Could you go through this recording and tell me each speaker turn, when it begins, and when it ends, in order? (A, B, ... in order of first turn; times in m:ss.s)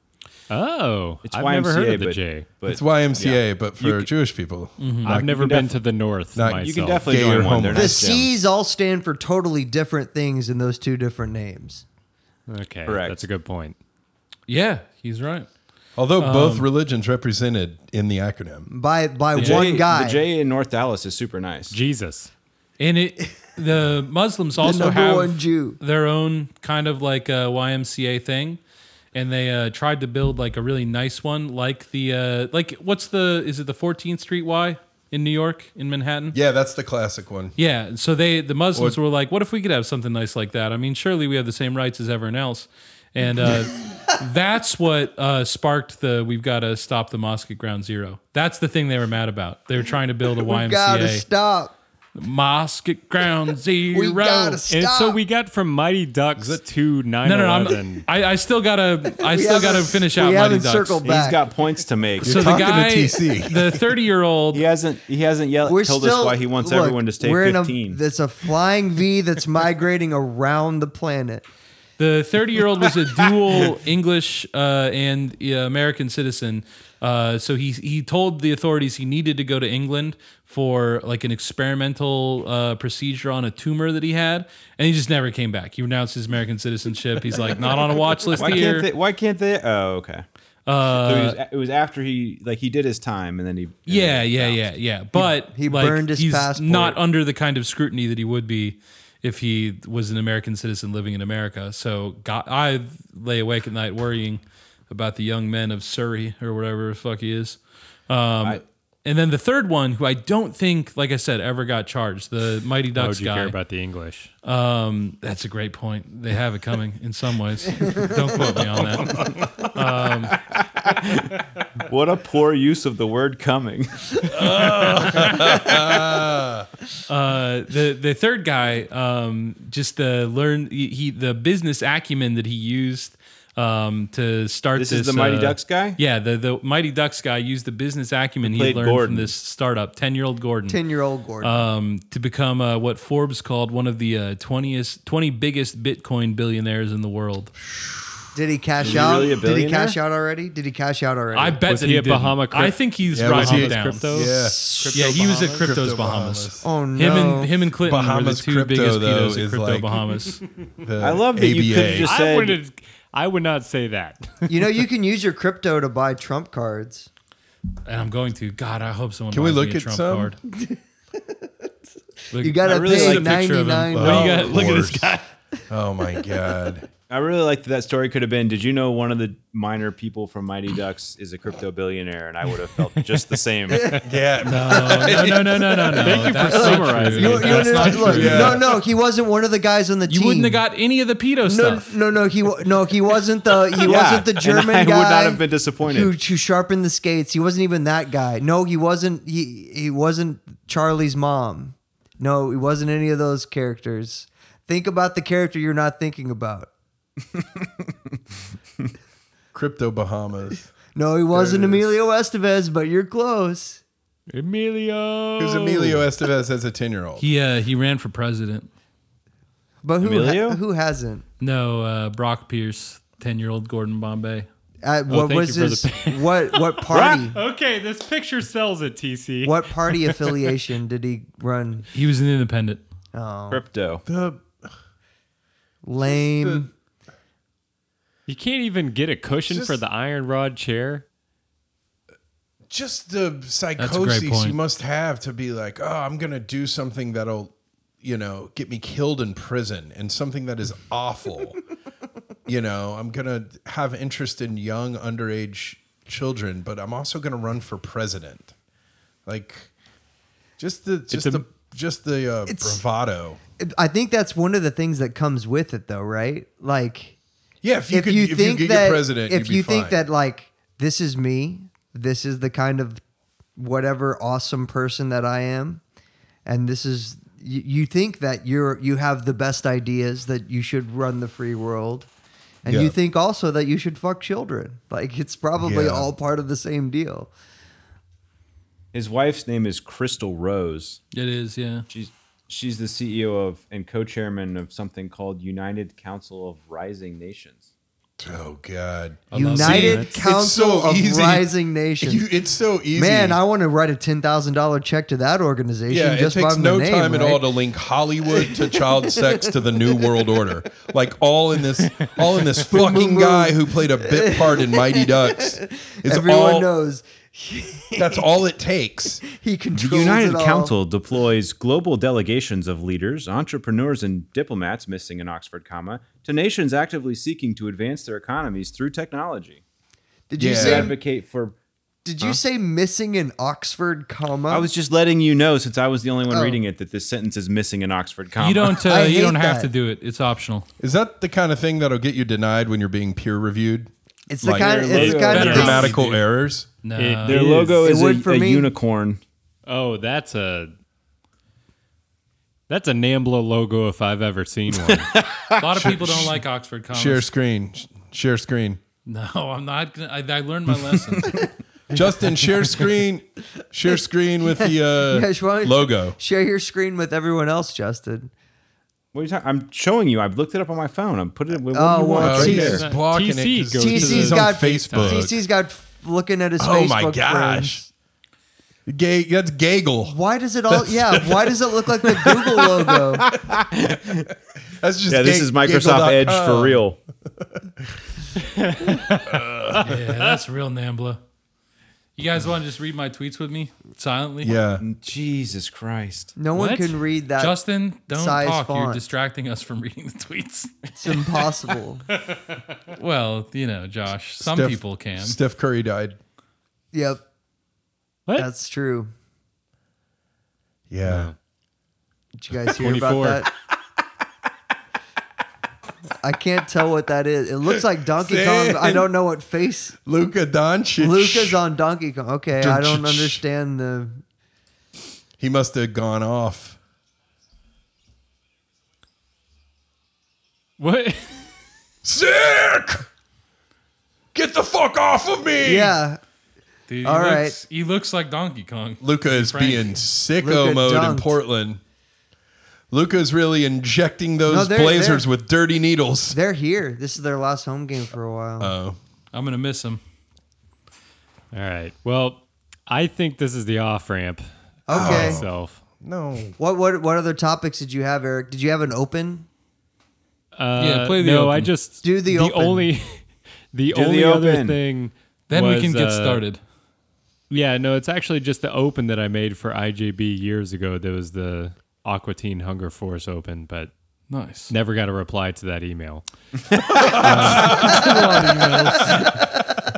0:00.5-0:02.5 A
0:01.2-0:04.1 B
0:02.7-0:05.5 C
0:04.8-0:05.2 D
0:05.0-0:07.1 A
0:05.1-0:05.8 B
0:06.4-0:08.1 C
0:06.6-0:08.3 B
0:07.7-0:11.8 E
0:12.5-0:13.8 A
0:12.9-0:13.2 B
0:14.5-0:15.5 D
0:16.0-0:18.7 C
0:16.2-0:16.7 D
0:18.7-0:20.2 E
0:19.4-0:21.8 B
0:21.7-0:22.3 A
0:22.8-0:28.6 D
0:24.6-0:25.8 E
0:29.1-0:36.4 D
0:36.3-0:37.6 C
0:37.6-0:51.3 D
0:50.3-0:51.8 E
0:52.2-0:54.6 D
0:53.9-0:55.2 E
0:54.7-0:58.1 A
0:56.4-0:56.6 C
0:57.2-1:01.0 D
0:59.2-1:01.4 E
1:01.0-1:02.7 B
1:02.2-1:03.8 C
1:02.2-1:04.6 D
1:04.5-1:08.0 B
1:05.6-1:11.4 E
1:12.0-1:28.9 D
1:28.4-1:30.3 B
1:30.7-1:31.4 D
1:31.0-1:34.7 B
1:33.9-1:53.6 D
1:35.2-1:37.0 E
1:53.0-1:54.3 A
1:54.4-2:00.4 D
1:58.6-1:59.7 C
2:00.5-2:04.5 B
2:04.3-2:05.8 D
2:04.4-2:06.7 C
2:07.1-2:20.8 D
2:14.8-2:16.0 B
2:18.4-2:19.3 B
2:20.7-2:21.6 E
2:21.4-2:27.5 D
2:27.6-2:28.3 C
2:28.3-2:31.6 E
2:28.8-2:30.0 B
2:31.3-2:34.1 D
2:31.7-2:35.7 A
2:33.1-2:34.7 C
2:34.3-2:35.4 E
2:34.9-2:40.4 D
2:35.4-2:36.7 C
2:36.6-2:37.5 E
2:37.8-2:40.0 C
2:40.8-2:42.1 C
2:41.0-2:42.6 B
2:42.0-2:44.7 A
2:44.5-2:47.1 E
2:47.9-2:50.4 D
2:49.3-2:50.4 C
2:50.5-2:50.8 E
2:52.3-2:55.2 D
2:52.4-2:54.7 E
2:52.6-2:53.4 B
2:53.9-2:55.1 C
2:55.7-2:56.9 C
2:57.1-3:04.0 B
3:03.7-3:04.0 E
3:04.0-3:06.2 C
3:04.4-3:08.6 D
3:04.8-3:05.1 E
3:06.0-3:08.5 A
3:06.3-3:10.6 E
3:07.8-3:08.8 C
3:10.1-3:11.9 D
3:11.5-3:26.7 E
3:13.8-3:16.1 B
3:29.5-3:30.7 C
3:31.0-3:33.8 E
3:31.3-3:31.8 C
3:34.3-3:36.1 A
3:35.4-3:37.2 C
3:37.2-3:38.7 D
3:39.8-3:41.2 E
3:40.0-3:40.6 B
3:41.4-3:44.5 D
3:44.8-3:47.4 E
3:45.1-3:50.4 A
3:46.9-3:47.2 B
3:49.4-3:51.9 E
3:51.9-3:52.8 D
3:53.1-3:53.6 E
3:53.5-3:54.0 B
3:54.1-3:54.7 C
3:55.8-3:56.7 E
3:56.0-3:56.7 C
3:58.3-4:01.0 A
3:59.5-3:59.8 C
4:02.7-4:11.6 C
4:03.8-4:04.6 D
4:12.5-4:18.5 C
4:19.3-4:19.7 C
4:20.6-4:23.4 C
4:21.1-4:21.4 A
4:22.5-4:22.8 E
4:23.6-4:27.2 E
4:27.6-4:30.0 C
4:27.9-4:33.0 E
4:33.6-4:35.8 E
4:36.5-4:42.1 E
4:42.6-4:47.3 E
4:42.7-4:43.0 C
4:45.6-4:46.1 C
4:48.9-4:51.0 B
4:51.1-4:51.9 D
4:51.9-4:57.6 B
4:58.2-5:01.5 C
4:59.3-5:00.1 D
4:59.3-5:02.3 E
4:59.8-5:00.0 A
5:02.0-5:03.4 C
5:03.0-5:07.4 E
5:05.9-5:16.7 C
5:08.3-5:10.3 E
5:12.6-5:18.3 E
5:18.0-5:19.2 C
5:19.2-5:20.7 E
5:19.8-5:29.6 B
5:30.3-5:31.0 E
5:30.4-5:30.9 C
5:30.5-5:31.6 B
5:32.0-5:34.7 E
5:34.5-5:38.8 B
5:36.3-5:36.6 E
5:38.4-5:40.7 D
5:38.8-5:39.7 E
5:40.8-5:46.7 C
5:44.3-5:45.9 E
5:44.6-5:45.9 B
5:45.3-5:46.2 D
5:46.8-5:47.4 D
5:47.0-5:47.9 A
5:47.2-5:49.2 B
5:47.8-5:48.7 E
5:49.7-5:50.7 A
5:52.7-5:55.1 A
5:54.9-5:55.8 B
5:55.6-5:57.3 D
5:55.7-5:56.4 C
5:56.9-5:58.8 C
5:59.1-6:01.4 D
6:01.9-6:06.2 C
6:04.4-6:08.3 E
6:09.1-6:12.8 B
6:11.7-6:12.8 E
6:12.2-6:15.4 C
6:12.6-6:15.3 A
6:13.8-6:17.9 E
6:16.6-6:17.8 C
6:18.9-6:20.2 C
6:20.0-6:23.4 E
6:20.7-6:21.6 C
6:22.1-6:22.4 C
6:23.1-6:24.3 B
6:24.8-6:26.8 C
6:25.1-6:27.0 B
6:27.4-6:27.9 C
6:28.4-6:29.8 A
6:29.3-6:29.9 C
6:29.8-6:31.2 D
6:32.2-6:34.6 D
6:34.4-6:34.8 C
6:34.8-6:36.3 B
6:36.4-6:37.6 E
6:36.6-6:36.9 A
6:37.4-6:40.9 D
6:38.1-6:39.0 E
6:41.0-6:42.0 E
6:43.0-6:45.4 D
6:44.4-6:46.2 C
6:46.9-6:47.2 E
6:48.4-6:49.1 E
6:50.9-6:51.3 C
6:51.1-6:51.3 A
6:52.4-6:53.5 E
6:52.8-6:53.4 A
6:56.2-7:00.0 E
6:58.2-6:59.1 C
7:00.1-7:01.6 C
7:01.0-7:04.2 E
7:02.6-7:03.4 C
7:05.4-7:06.8 C
7:10.8-7:11.5 A
7:12.0-7:13.1 C
7:14.3-7:16.0 C
7:15.6-7:16.2 E
7:16.9-7:20.0 D
7:17.0-7:17.6 E
7:19.0-7:21.8 C
7:20.4-7:21.4 E
7:22.9-7:26.4 C
7:24.5-7:25.3 E
7:26.3-7:28.7 E
7:28.6-7:29.0 C
7:29.3-7:30.0 D
7:31.5-7:35.8 A
7:34.9-7:35.4 E
7:34.9-7:35.5 C
7:36.0-7:36.6 C
7:36.6-7:39.5 E
7:40.6-7:46.4 A
7:40.8-7:41.7 D
7:42.0-7:42.9 E
7:43.9-7:44.8 B
7:45.5-7:46.6 D
7:47.5-7:53.9 A
7:54.3-7:54.7 D
7:54.7-7:56.3 A
7:56.9-7:59.5 C
7:57.0-7:58.1 A
7:57.2-7:59.4 D